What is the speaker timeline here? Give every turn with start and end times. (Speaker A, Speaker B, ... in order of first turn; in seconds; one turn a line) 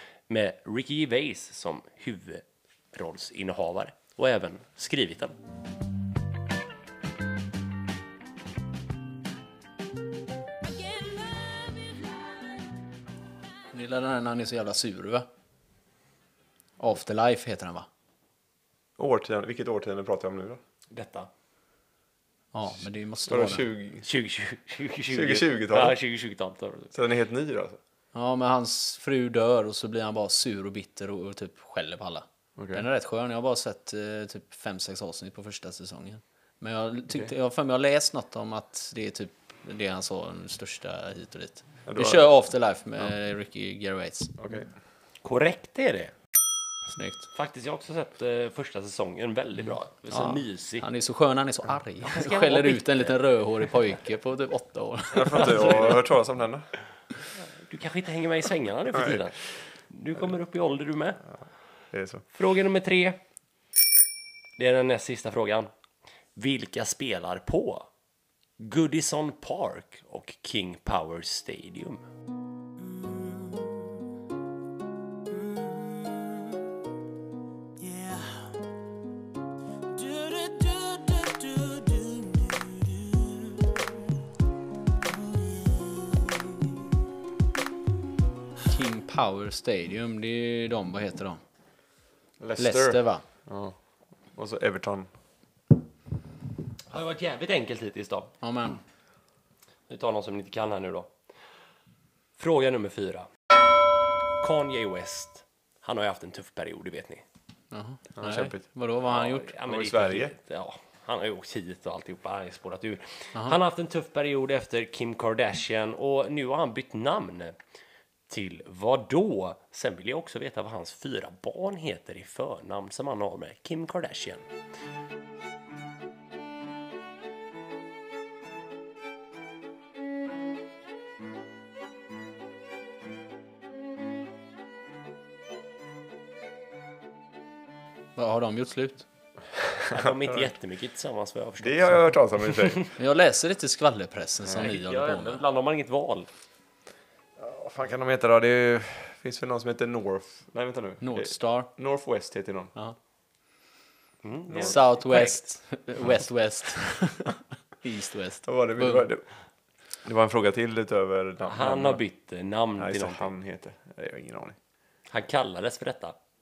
Speaker A: 0.3-5.3
Speaker B: 13.7-15.3
Speaker B: 16.8-17.9
Speaker C: 19.0-20.6
Speaker A: 20.9-21.3
Speaker B: 22.5-23.6
Speaker C: 23.2-24.0
Speaker A: 24.0-26.9
Speaker C: 25.1-26.0
Speaker C: 26.9-27.8
Speaker B: 28.1-44.4
Speaker C: 32.6-32.9
Speaker C: 41.9-42.3
Speaker C: 44.4-44.7
Speaker A: 45.2-46.1
Speaker B: 46.9-47.3
Speaker A: 47.3-50.8
Speaker B: 50.1-55.9
Speaker A: 52.0-53.2
Speaker C: 55.1-56.7
Speaker A: 55.3-55.9
Speaker A: 57.6-61.2
Speaker C: 58.9-59.2
Speaker C: 61.9-62.2
Speaker A: 62.3-63.2
Speaker A: 64.6-65.7
Speaker A: 66.3-67.9
Speaker A: 68.6-72.0
Speaker D: 72.8-73.7
Speaker D: 75.3-76.4
Speaker D: 77.8-78.5
Speaker D: 80.0-83.8
Speaker D: 85.1-86.5
Speaker B: 88.7-91.4
Speaker C: 92.4-93.8
Speaker B: 92.6-93.2
Speaker C: 94.3-95.1
Speaker A: 96.9-98.3
Speaker B: 98.4-98.8
Speaker A: 99.9-101.1
Speaker A: 102.4-103.3
Speaker A: 104.4-107.2
Speaker B: 107.7-109.5
Speaker C: 108.2-108.6
Speaker A: 109.0-117.5
Speaker C: 109.7-110.3
Speaker A: 118.3-124.4
Speaker B: 138.2-139.0
Speaker C: 139.7-140.5
Speaker A: 139.9-142.1
Speaker C: 141.6-142.9
Speaker B: 143.0-145.4
Speaker A: 144.5-146.3
Speaker C: 147.4-152.7
Speaker B: 151.0-151.7
Speaker A: 154.2-155.4
Speaker C: 154.5-154.8
Speaker B: 154.5-159.1
Speaker C: 158.4-159.2
Speaker C: 160.0-162.0
Speaker A: 161.4-163.3
Speaker C: 162.8-164.6
Speaker A: 165.1-166.2